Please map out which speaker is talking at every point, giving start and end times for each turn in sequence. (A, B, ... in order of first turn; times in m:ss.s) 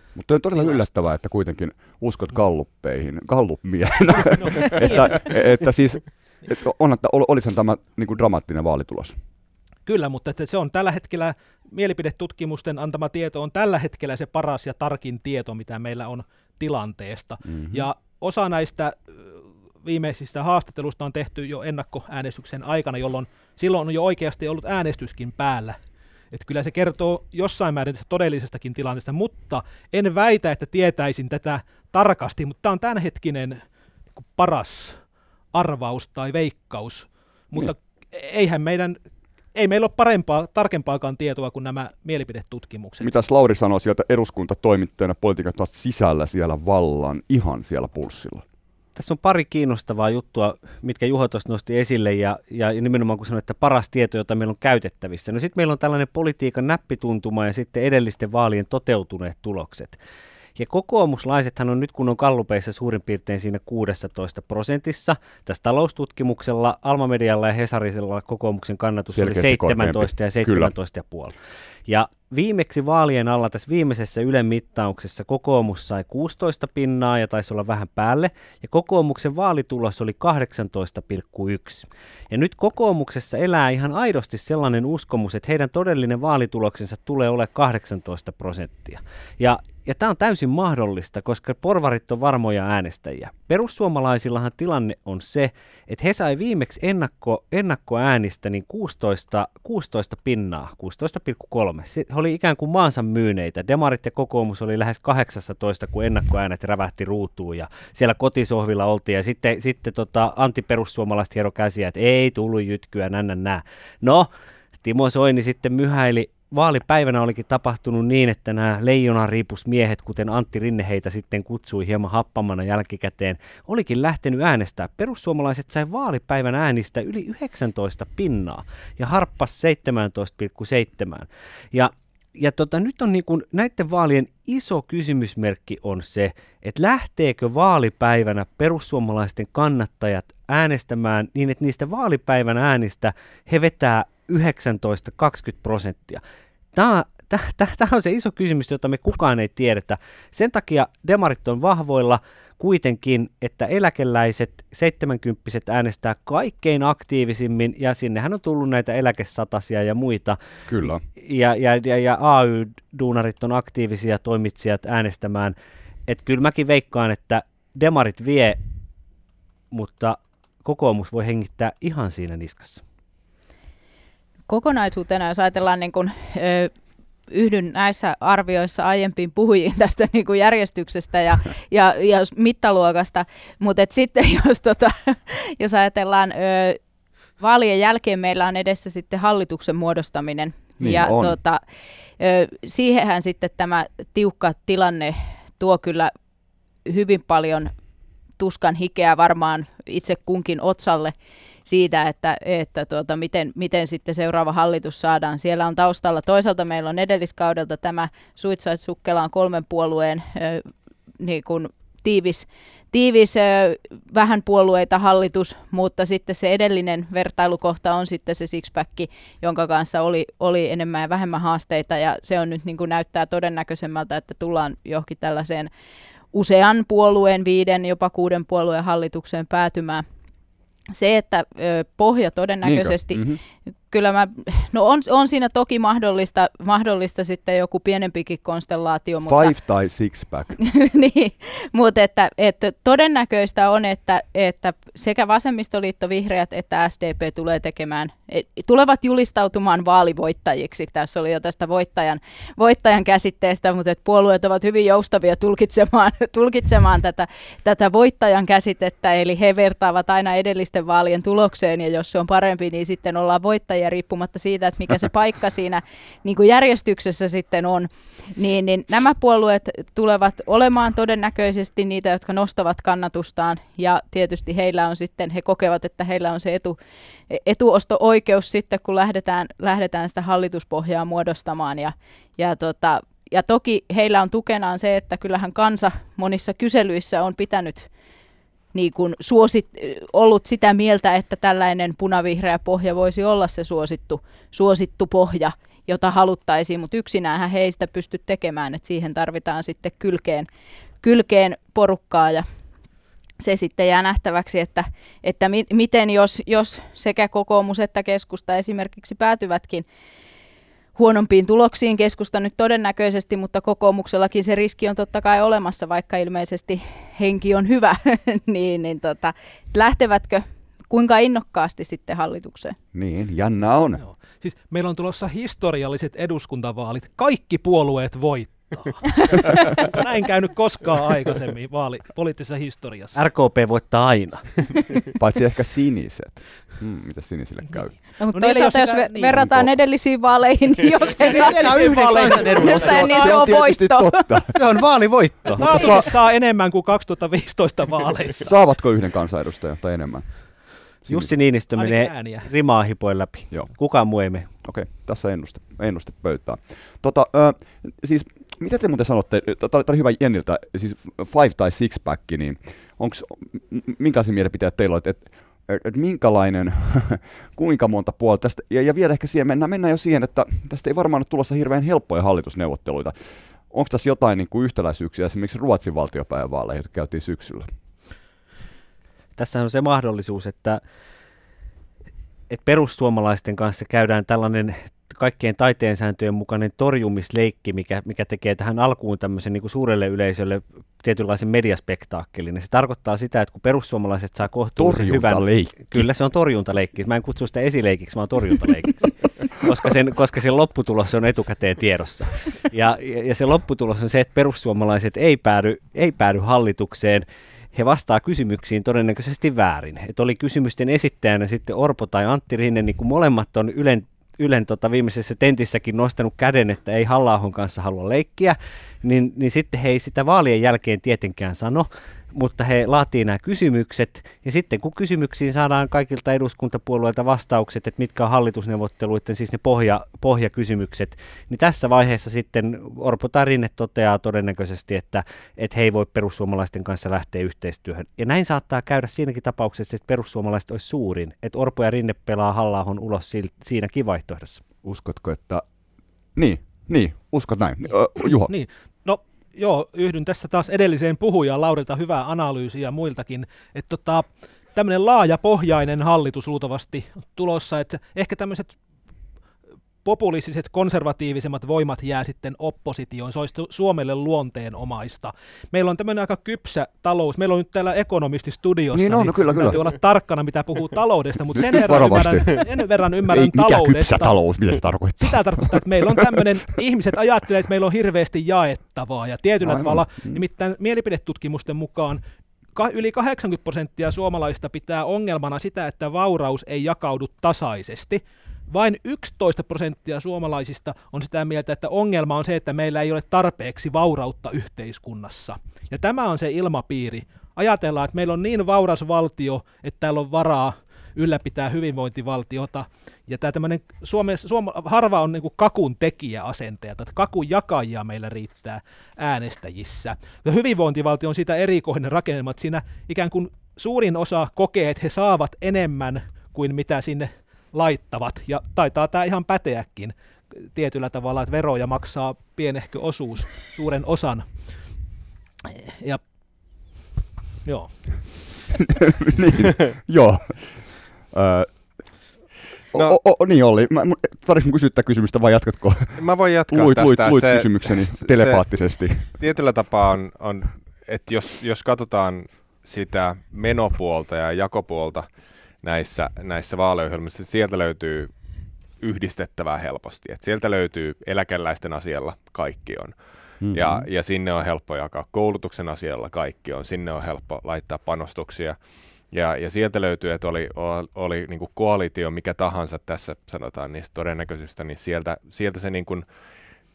0:00.1-0:09.1 A
0:04.2-0:05.2 B
0:09.9-0:25.8 B
0:17.5-0:17.9 A
0:26.3-0:33.6 B
0:34.2-0:35.0 B
0:35.5-0:39.0 B
0:39.5-0:43.1 B
0:43.0-0:48.4 A
0:48.9-1:00.0 C
1:00.6-1:11.4 C
1:09.1-1:10.7 A
1:11.9-1:54.3 C
1:54.8-2:26.2 C
2:26.7-2:40.4 C
2:40.7-2:41.0 A
2:41.2-2:45.6 C
2:46.1-2:48.6 C
2:49.7-2:52.8 C
2:54.5-2:56.7 D
2:57.3-3:06.8 D
3:07.4-3:11.6 D
3:10.8-3:11.4 A
3:12.2-3:16.1 D
3:16.8-3:17.7 D
3:18.4-3:21.1 D
3:21.6-3:45.7 D
3:46.3-3:50.0 D
3:50.9-3:53.2 D
3:52.6-3:53.4 A
3:53.9-3:59.5 D
3:59.2-4:00.6 A
4:00.6-4:36.8 D
4:37.3-4:47.9 D
4:48.7-5:00.5 D
5:01.0-5:02.5 D
5:03.4-5:09.8 D
5:11.0-5:22.8 D
5:22.9-5:24.0 A
5:24.0-5:33.2 B
5:33.2-5:34.6 C
5:35.2-5:38.0 A
5:38.2-5:44.4 D
5:38.2-5:39.4 B
5:39.4-5:39.7 A
5:41.0-5:43.2 B
5:41.2-5:43.5 C
5:42.6-5:44.6 A
5:44.5-5:46.1 C
5:45.5-5:48.5 B
5:45.6-5:46.0 A
5:48.4-5:50.5 A
5:51.0-5:51.3 A
5:51.1-5:54.5 C
5:51.7-5:52.5 B
5:54.6-6:13.2 A
6:13.7-6:17.7 A
6:19.4-6:20.8 C
6:22.5-7:24.6 C
6:34.8-6:36.1 A
7:24.8-7:25.6 A
7:26.4-7:28.5 A
7:28.5-7:38.8 B
7:40.0-7:54.4 B
7:48.9-7:49.8 A
7:51.6-7:52.6 A
7:53.3-7:56.4 A
7:55.2-8:02.2 B
7:59.6-8:00.4 A
8:02.8-8:44.6 B
8:45.7-8:46.2 B
8:47.6-8:48.5 B
8:48.9-8:51.7 A
8:52.9-8:59.4 A
8:56.2-8:58.6 E
8:59.2-9:05.2 E
9:05.8-9:08.3 E
9:09.0-9:13.2 E
9:13.6-9:14.1 A
9:13.7-9:18.8 E
9:19.3-9:26.2 E